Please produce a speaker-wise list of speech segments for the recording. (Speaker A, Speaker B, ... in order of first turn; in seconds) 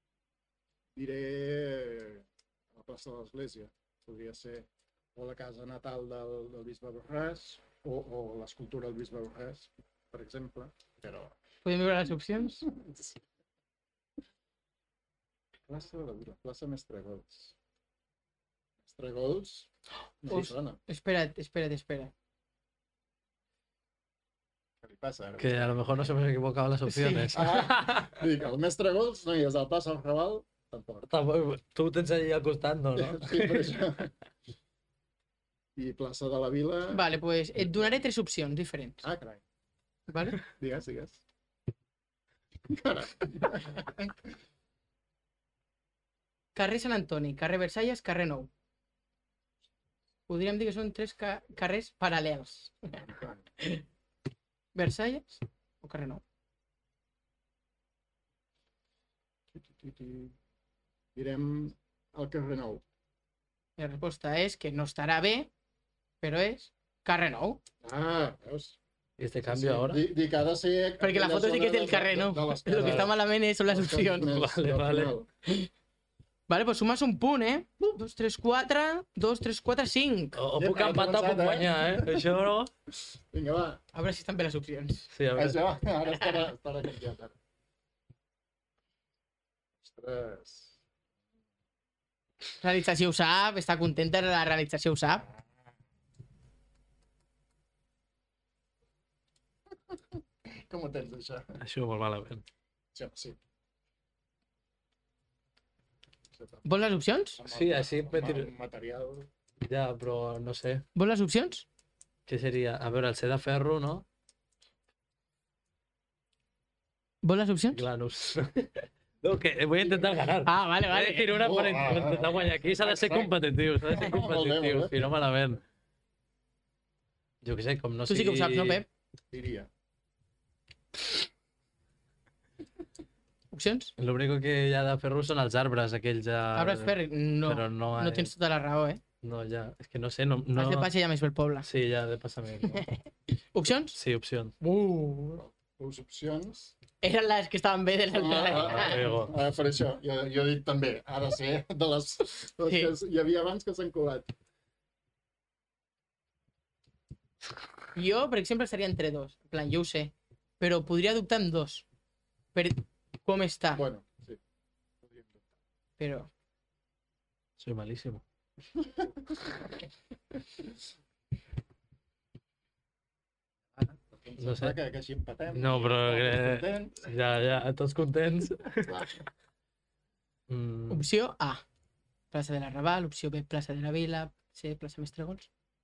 Speaker A: 0.9-11.3, 12.4-13.2, 15.7-17.5, 18.8-19.7, 20.2-20.8, 24.8-26.1, 27.3-31.1, 33.0-34.1, 35.8-37.0, 39.0-39.4, 40.4-41.2, 42.7-44.3, 52.9-53.4, 59.5-60.4, 61.1-62.8, 67.8-68.8, 69.4-73.1, 73.7-75.3, 80.5-82.3, 83.0-83.8, 85.3-87.3, 89.8-90.7, 99.9-101.6, 102.9-103.4, 106.3-106.7, 107.4-109.3, 121.4-123.3, 123.8-125.0, 129.3-129.7, 145.4-146.7, 148.1-154.3, 163.7-164.4, 165.0-165.4, 168.8-169.8, 173.8-177.1, 178.9-179.2
Speaker B: 11.6-12.6, 20.3-22.1, 26.9-27.3, 36.9-39.0, 40.1-40.4, 46.5-48.5, 50.3-53.0, 54.7-56.2, 63.8-65.5, 66.2-67.6, 71.0-74.3, 76.5-80.4, 83.9-85.1, 86.1-86.4, 92.6-95.2, 106.6-107.4, 110.9-111.6, 117.2-117.8, 120.4-121.3, 128.1-128.8, 133.5-133.9, 136.5-139.0, 140.6-141.7, 142.8-143.0, 143.5-143.9, 144.6-145.4, 147.0-149.0, 157.9-161.8, 162.5-163.8, 166.0-166.3, 180.9-181.6, 182.3-185.5
Speaker C: 25.4-28.1, 31.1-33.8, 69.2-70.0, 72.8-73.1, 74.0-75.1, 80.3-82.7, 85.1-85.6, 101.6-102.5, 107.4-108.5, 109.6-110.8, 112.3-114.0, 117.7-125.6, 127.4-128.8, 134.0-136.9, 137.4-138.3, 139.2-140.9, 141.6-142.8, 143.9-144.5, 148.5-149.3, 167.6-168.2, 174.4-174.8, 175.5-179.0, 180.5-181.0